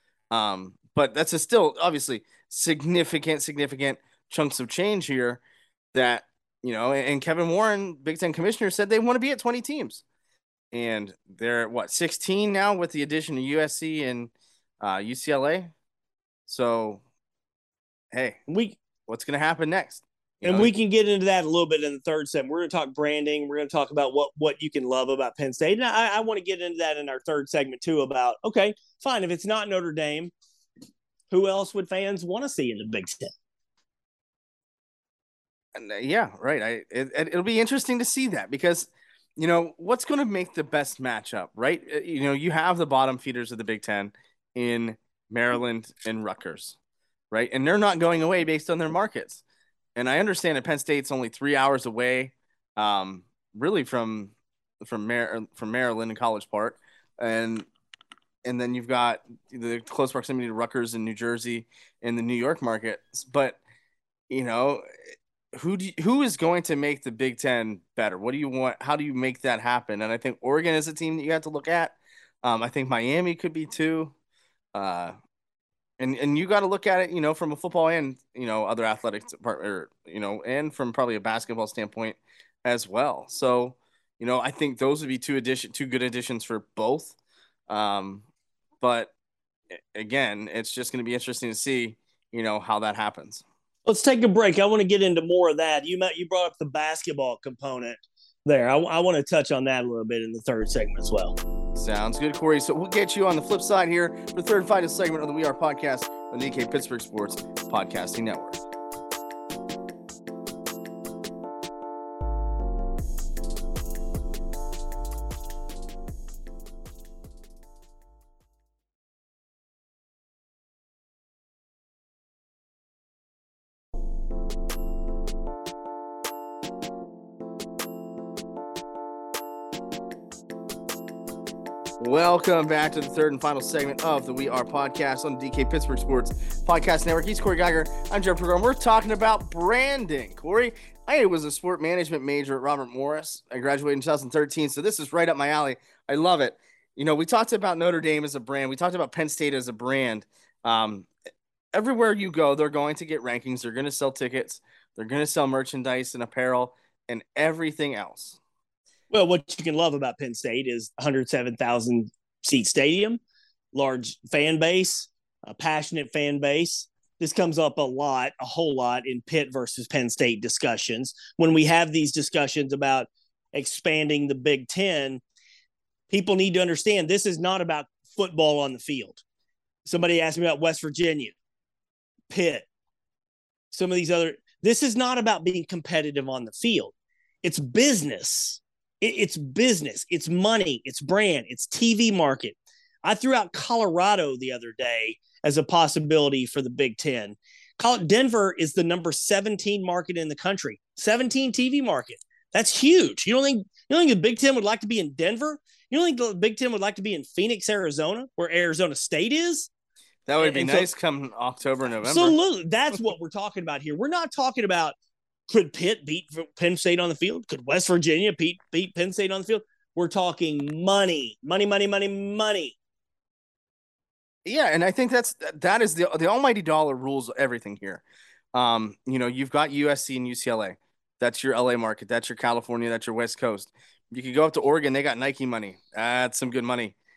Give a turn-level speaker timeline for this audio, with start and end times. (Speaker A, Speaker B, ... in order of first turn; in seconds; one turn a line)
Speaker A: 0.3-5.4
Speaker A: 5.9-10.0
Speaker A: 10.7-15.7
Speaker A: 16.5-17.0
Speaker A: 18.1-18.4
Speaker B: 18.5-18.8
Speaker A: 19.1-20.7
Speaker B: 20.4-30.3
Speaker B: 31.3-33.3
Speaker A: 35.8-46.8
Speaker A: 47.3-49.4
Speaker A: 50.0-57.7
Speaker A: 58.4-63.6
Speaker A: 64.3-64.8
Speaker A: 65.5-74.1
Speaker A: 74.7-75.1
Speaker A: 76.0-87.2
Speaker A: 87.7-88.2
Speaker A: 88.8-89.1
Speaker A: 89.8-93.4
Speaker B: 93.9-101.4
Speaker A: 101.8-108.6
Speaker A: 132.0-151.1
Speaker A: 151.7-158.4
Speaker B: 159.1-163.2
Speaker B: 163.7-175.2
Speaker B: 176.1-179.2
Speaker B: 179.9-181.3
Speaker B: 182.3-182.7
Speaker B: 183.7-209.7
Speaker A: 210.3-212.3
Speaker B: 210.4-210.9
Speaker B: 212.0-215.0
Speaker B: 215.5-222.8
Speaker A: 224.4-228.0
Speaker A: 228.5-236.9